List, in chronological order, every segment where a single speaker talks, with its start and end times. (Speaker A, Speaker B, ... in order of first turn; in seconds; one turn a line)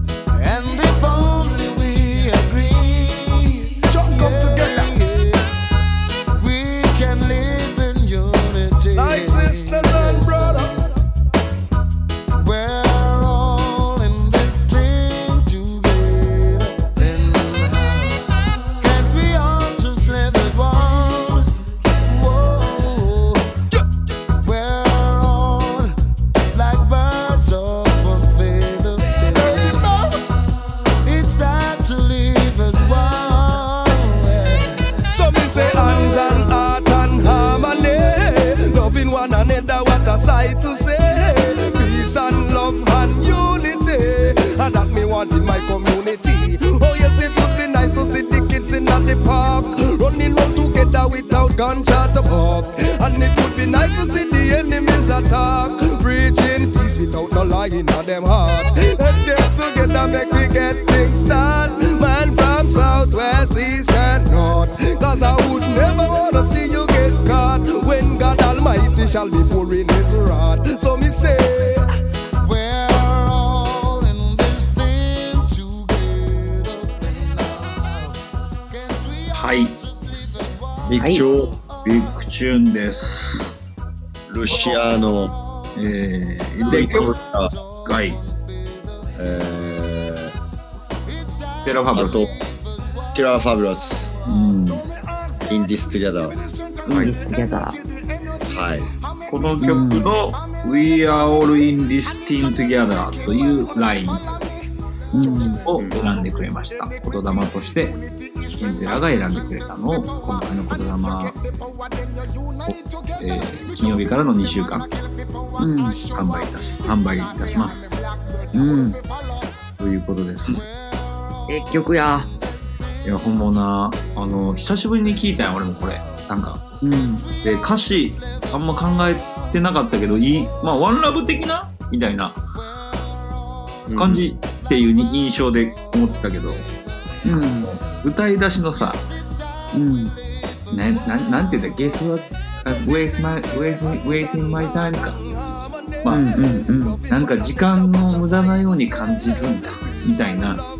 Speaker A: 0.3-5.5
Speaker B: 3.9-4.9
Speaker A: 6.3-10.8
Speaker B: 8.9-10.8
Speaker A: 12.3-18.2
Speaker A: 18.8-21.5
Speaker A: 22.0-23.6
Speaker A: 24.4-25.9
Speaker A: 26.5-29.9
Speaker B: 29.2-30.2
Speaker A: 31.0-34.9
Speaker B: 35.1-71.8
Speaker A: 72.4-81.6
Speaker C: 79.3-79.8
Speaker D: 80.8-81.5
Speaker E: 81.0-81.2
Speaker C: 81.8-83.5
Speaker D: 84.3-85.3
Speaker A: 84.5-84.8
Speaker C: 85.8-87.1
Speaker D: 86.6-87.5
Speaker A: 86.9-88.0
Speaker C: 87.8-88.2
Speaker A: 88.5-89.2
Speaker D: 89.2-90.3
Speaker A: 91.0-93.2
Speaker C: 91.6-92.2
Speaker D: 91.9-92.3
Speaker D: 93.1-94.1
Speaker C: 94.2-94.8
Speaker A: 94.3-95.5
Speaker D: 95.5-96.4
Speaker A: 96.4-97.1
Speaker E: 96.8-97.8
Speaker A: 97.8-98.3
Speaker D: 98.5-98.9
Speaker C: 99.3-104.2
Speaker E: 99.6-100.1
Speaker A: 104.1-104.5
Speaker E: 105.1-105.6
Speaker C: 105.6-108.0
Speaker D: 105.8-106.0
Speaker C: 108.6-111.4
Speaker A: 111.3-113.1
Speaker C: 113.2-114.9
Speaker A: 114.7-116.4
Speaker E: 115.6-116.0
Speaker C: 116.1-118.0
Speaker A: 117.0-119.5
Speaker E: 118.5-119.0
Speaker C: 119.8-120.7
Speaker E: 121.5-122.3
Speaker C: 123.0-126.6
Speaker E: 126.8-127.3
Speaker C: 127.4-132.4
Speaker D: 133.9-134.3
Speaker C: 133.9-136.7
Speaker E: 137.2-137.7
Speaker C: 137.3-139.0
Speaker E: 139.7-140.1
Speaker C: 140.7-145.2
Speaker E: 146.1-147.0
Speaker C: 147.1-150.6